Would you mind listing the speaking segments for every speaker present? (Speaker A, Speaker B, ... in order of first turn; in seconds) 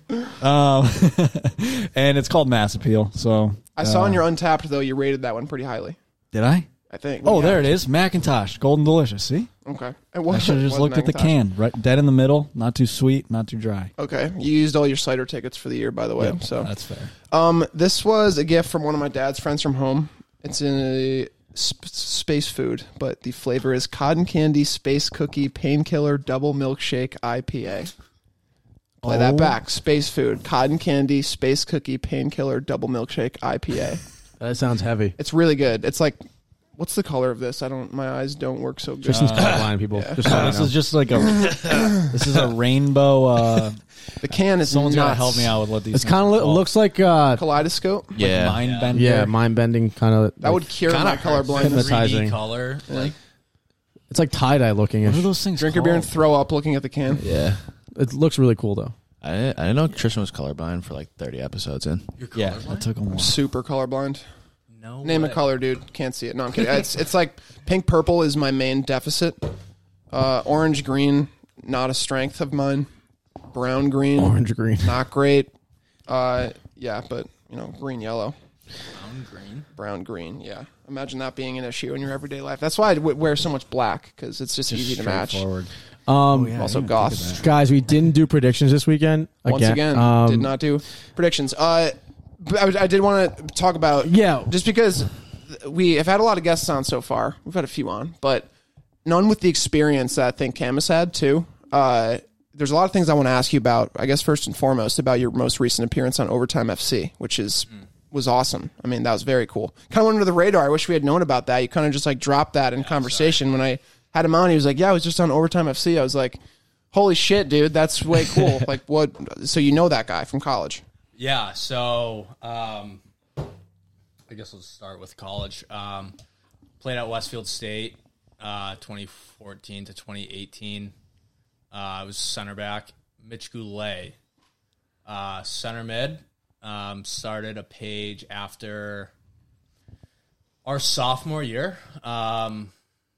Speaker A: 0.4-4.3, 6.3-6.7, 7.2-9.5, 10.3-13.9, 16.2-17.1, 29.1-29.5, 39.1-39.6, 40.2-43.8, 44.7-46.7, 48.2-49.3, 55.0-56.1, 62.3-63.4, 84.7-85.7, 86.3-87.5
Speaker B: 3.8-6.0, 6.9-7.8, 9.7-11.3, 14.0-16.7, 17.3-27.9, 29.0-34.0, 35.2-36.2, 36.8-40.2, 41.4-42.0, 44.2-45.6, 47.4-48.3, 50.4-51.9, 55.6-57.2, 63.1-64.2, 65.0-69.5, 70.1-72.9, 73.5-75.5, 76.1-78.3, 79.8-85.5, 86.5-87.4, 89.5-98.5, 99.0-116.4, 116.9-120.8
Speaker C: 34.4-35.2, 39.0-40.8, 45.9-47.5, 48.9-50.9, 51.6-52.4, 54.1-55.3, 58.0-58.9, 74.2-75.0, 86.1-86.7, 87.4-90.5, 94.0-94.5
Speaker D: 48.1-48.6, 50.9-51.6, 57.1-57.6, 59.2-62.1
Speaker E: 48.6-49.0, 51.5-53.1, 62.2-62.9, 64.8-65.4, 78.9-79.7, 112.8-113.4, 121.2-123.0, 124.3-126.2, 126.8-130.9, 131.7-134.2, 135.1-139.1, 140.7-142.7